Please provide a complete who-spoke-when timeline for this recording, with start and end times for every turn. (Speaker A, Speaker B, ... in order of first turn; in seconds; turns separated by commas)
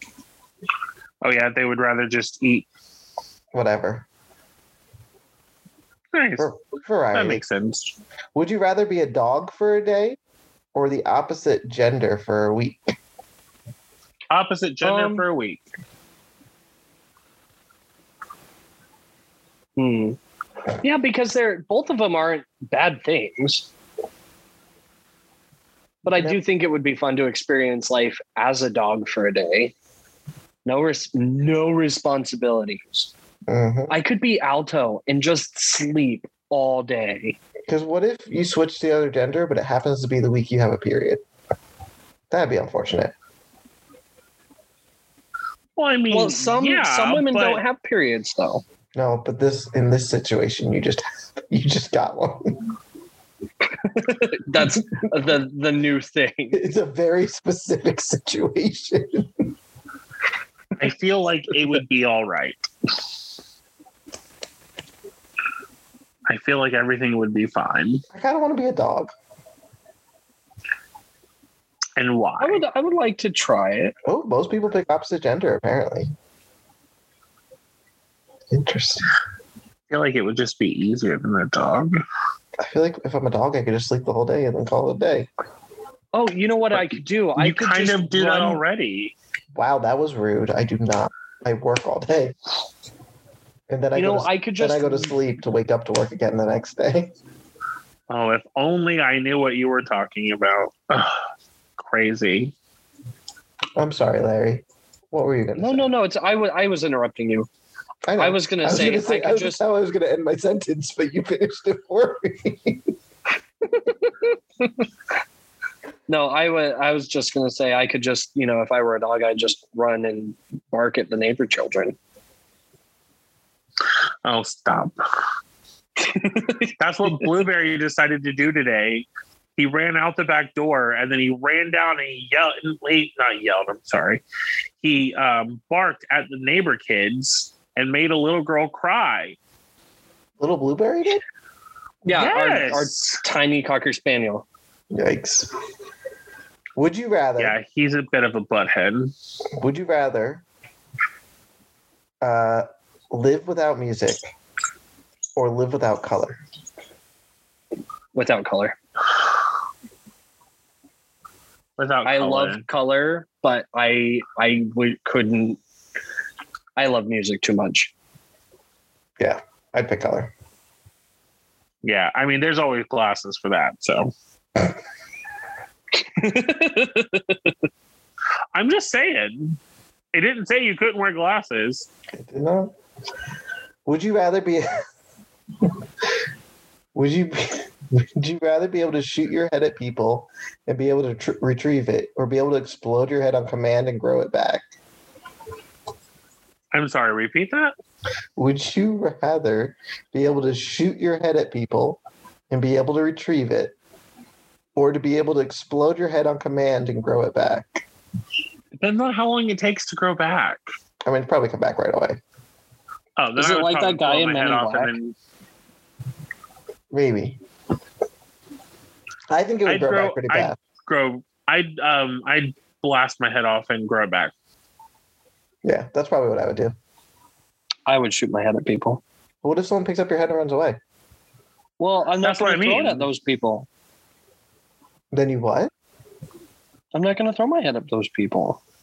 Speaker A: 1.2-2.7, Speaker B: 3.5-4.0, Speaker A: 6.1-6.5, Speaker B: 6.4-7.4, Speaker A: 7.1-7.9, Speaker B: 8.3-10.2, Speaker B: 10.7-12.9, Speaker A: 14.3-15.6, Speaker C: 14.8-15.2, Speaker C: 19.8-20.2, Speaker C: 20.8-23.7, Speaker C: 26.0-29.7, Speaker C: 30.6-33.1, Speaker B: 33.5-33.9, Speaker C: 33.9-37.4, Speaker B: 37.7-41.2, Speaker B: 42.3-43.1, Speaker A: 45.8-47.6, Speaker C: 46.1-48.6, Speaker B: 48.9-52.6, Speaker C: 53.8-56.6, Speaker B: 56.5-59.3, Speaker A: 60.8-62.6, Speaker A: 66.3-68.0, Speaker B: 68.1-69.1, Speaker A: 72.0-72.6, Speaker C: 72.4-73.9, Speaker B: 74.0-76.1, Speaker B: 78.5-79.1, Speaker A: 79.9-82.0, Speaker B: 82.6-85.3, Speaker C: 86.1-88.6, Speaker A: 86.7-89.1, Speaker B: 89.5-92.3, Speaker B: 93.7-97.1, Speaker C: 93.9-95.1, Speaker A: 98.1-101.3, Speaker A: 101.8-102.5, Speaker B: 103.8-105.9, Speaker C: 105.6-107.5, Speaker B: 108.0-112.8, Speaker C: 108.2-109.6, Speaker C: 116.1-122.0, Speaker A: 124.2-125.0, Speaker C: 126.0-127.3, Speaker A: 126.8-134.2, Speaker A: 134.8-139.4, Speaker B: 140.4-141.2, Speaker C: 142.0-144.4, Speaker A: 142.1-143.2, Speaker B: 144.9-145.5, Speaker B: 146.8-147.6, Speaker A: 147.4-149.1, Speaker B: 149.6-150.4, Speaker B: 152.2-154.2, Speaker B: 155.3-156.3, Speaker C: 158.1-158.8, Speaker A: 161.8-162.6, Speaker C: 162.0-165.6, Speaker C: 166.8-167.9, Speaker B: 169.2-170.3, Speaker A: 171.8-174.1, Speaker C: 176.0-177.5, Speaker A: 178.5-179.6, Speaker A: 180.1-181.9, Speaker B: 182.1-182.7, Speaker B: 183.8-184.7, Speaker B: 186.9-194.6, Speaker A: 196.7-197.7, Speaker B: 198.4-202.0, Speaker B: 202.5-203.7, Speaker B: 204.8-207.8, Speaker A: 208.7-210.6, Speaker B: 211.0-212.2, Speaker A: 213.2-215.1, Speaker C: 213.4-214.9, Speaker B: 216.9-217.4, Speaker B: 219.3-220.6, Speaker A: 219.7-224.3, Speaker B: 225.6-226.7, Speaker C: 227.9-229.0, Speaker B: 229.4-230.8, Speaker C: 231.8-233.7, Speaker A: 232.2-233.1, Speaker B: 235.1-235.7, Speaker C: 236.9-238.6